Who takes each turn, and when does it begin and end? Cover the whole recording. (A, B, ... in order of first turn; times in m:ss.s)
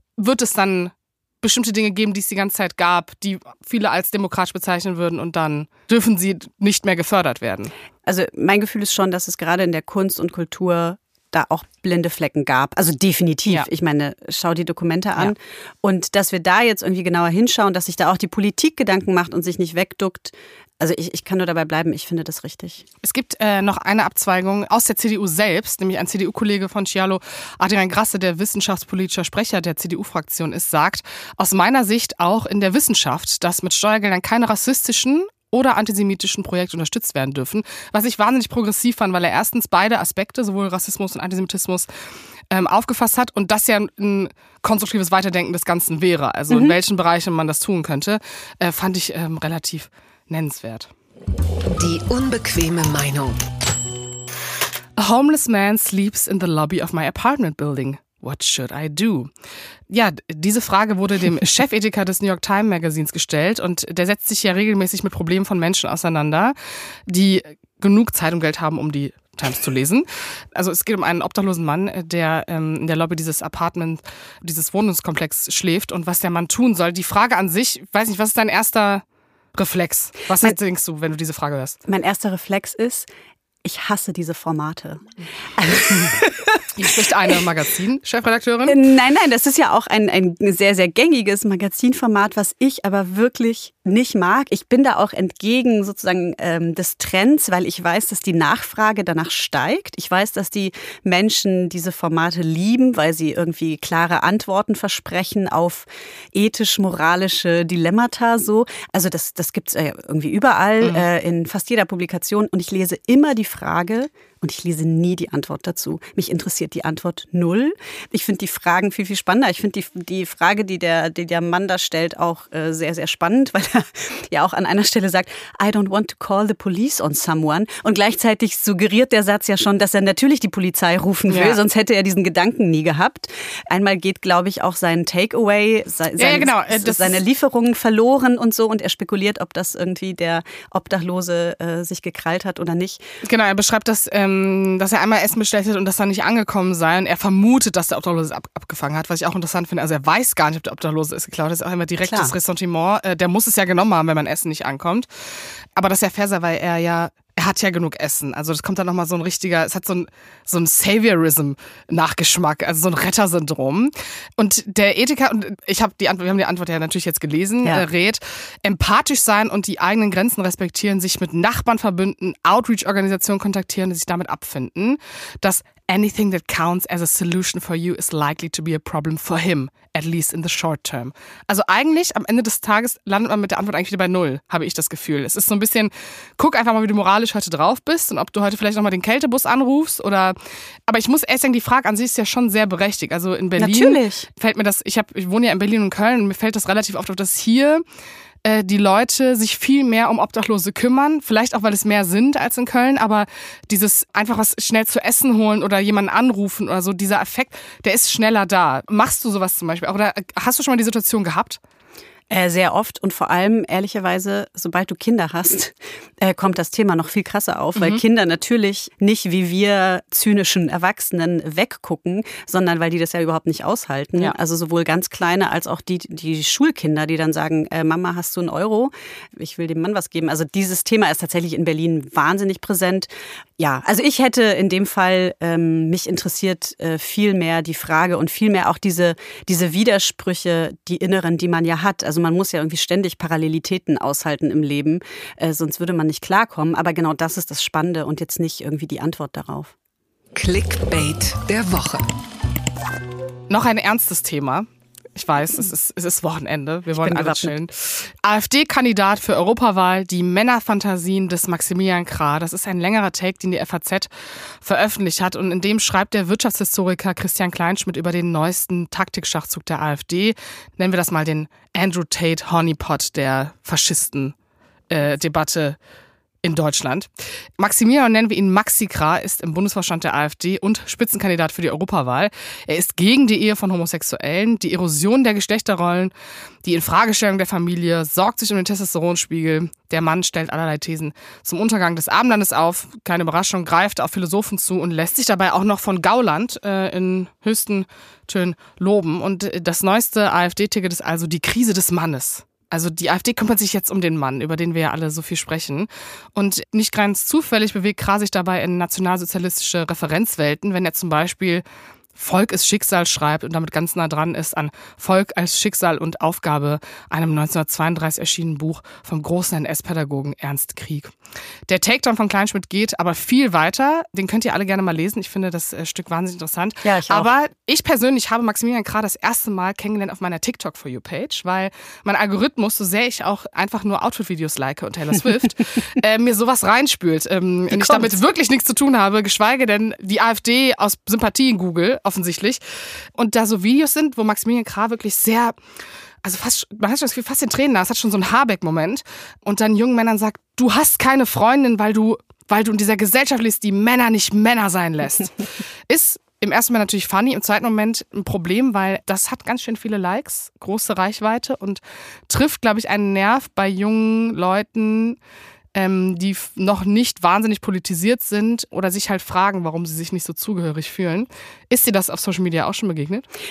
0:00.2-0:07.7 A
0:08.0-0:22.9 B
0:23.0-0:41.9 A
0:42.5-0:50.9 A
0:46.5-0:46.8 B
0:51.7-0:53.4 C
0:55.0-0:59.3 A
0:59.9-1:06.6 A
1:07.1-1:19.0 A
1:19.6-1:21.8 A
1:21.9-1:23.1 B
1:23.6-1:27.4 B
1:26.8-1:28.8 A
1:28.7-2:23.0 B
2:11.3-2:11.6 A
2:16.2-2:17.2 A
2:23.2-2:35.1 A
2:32.0-2:32.3 B
2:35.8-3:10.4 A
3:10.9-3:17.8 A
3:13.6-3:14.3 B
3:18.4-3:31.6 A
3:32.3-4:09.7 B
3:37.8-3:38.0 A
4:10.4-4:12.0 C
4:13.5-4:24.1 A
4:17.0-4:17.5 B
4:24.6-4:34.4 A
4:34.9-4:35.8 A
4:36.4-4:46.1 A
4:46.6-5:11.6 A
5:12.2-5:21.1 A
5:21.7-5:45.6 A
5:26.8-5:27.3 B
5:37.7-5:38.2 B
5:46.2-5:55.3 A
5:55.9-6:05.2 A
6:05.8-6:13.2 A